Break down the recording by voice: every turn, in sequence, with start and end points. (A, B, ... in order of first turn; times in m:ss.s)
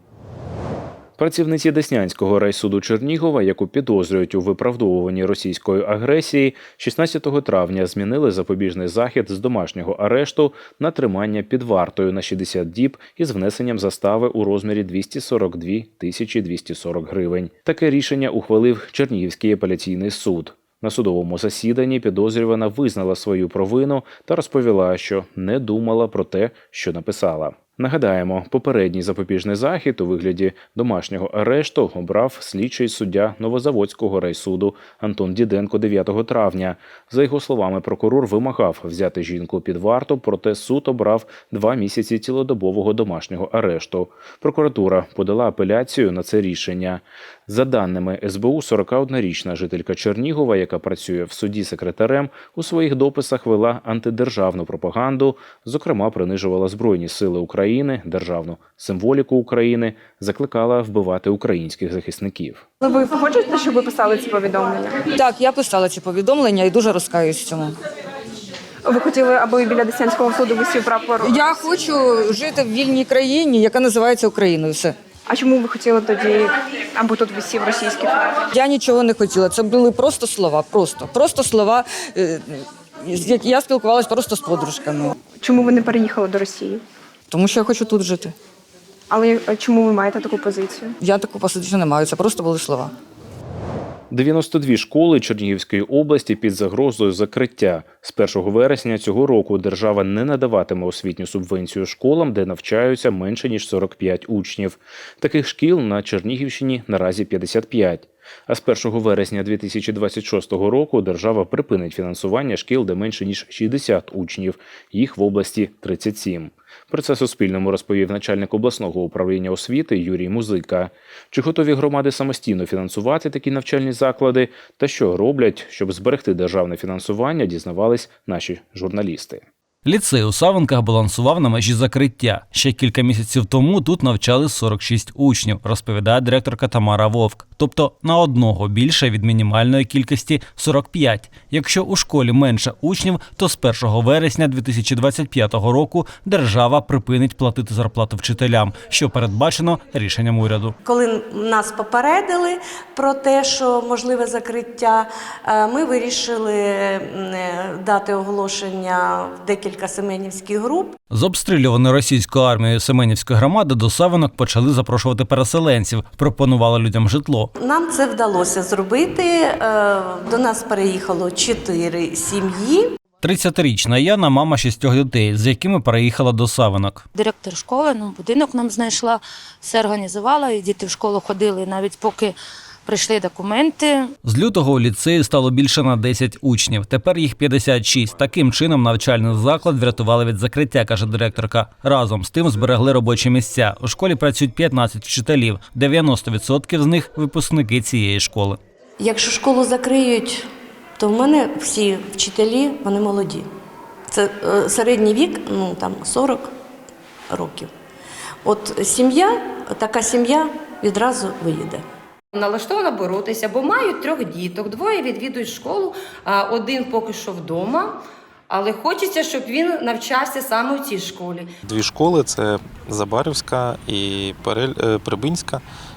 0:01.2-1:02.6 A
1:02.8-1:05.0 B
1:05.1-1:07.8 C
1:08.8-1:11.4 B
1:11.2-1:15.0 C
1:15.3-1:18.4 B
1:18.5-1:25.2 C
1:25.4-1:26.8 B
1:27.3-1:28.3 C
1:29.1-1:30.9 B
1:31.0-1:32.9 C
1:34.1-2:09.4 A
2:09.8-2:30.7 D
2:30.8-2:41.0 E
2:41.1-2:47.5 D
2:47.6-2:52.9 E
2:53.2-2:57.0 D
2:57.2-3:04.1 F
3:04.2-3:18.6 D
3:19.0-3:20.5 E
3:21.0-3:23.5 E
3:24.1-3:26.5 E
3:27.3-3:27.7 E
3:28.4-3:31.8 E
3:32.3-3:41.5 G
3:41.6-3:45.6 H